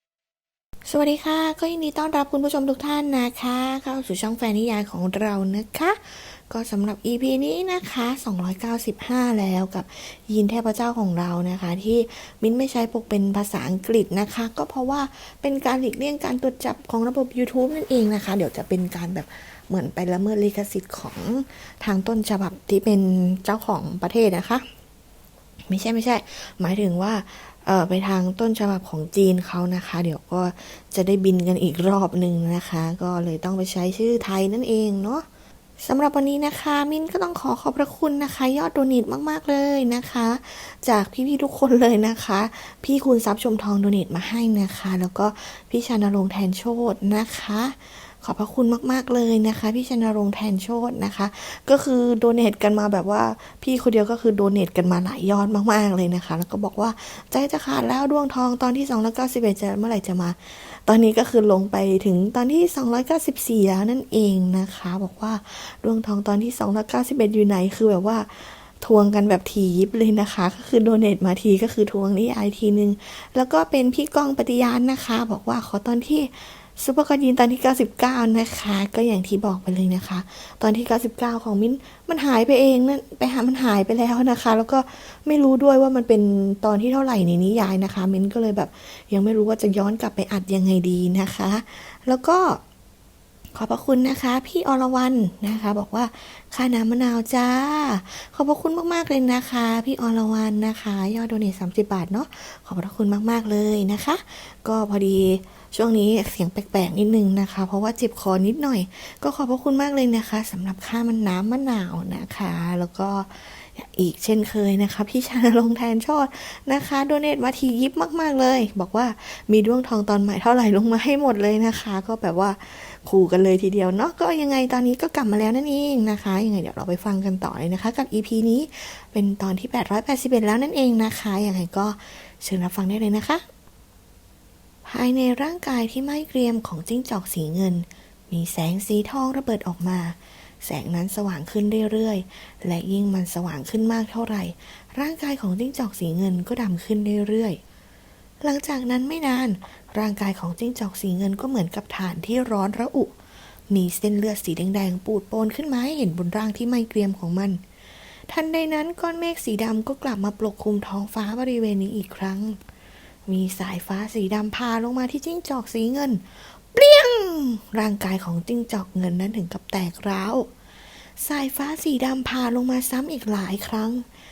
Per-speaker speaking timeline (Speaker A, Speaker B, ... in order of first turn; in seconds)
Speaker A: 0.8-24.7, 25.7-35.3, 35.8-92.6, 93.5-133.4, 134.8-147.6, 148.4-153.1, 153.7-157.6, 158.3-162.6, 163.2-170.5, 171.2-174.1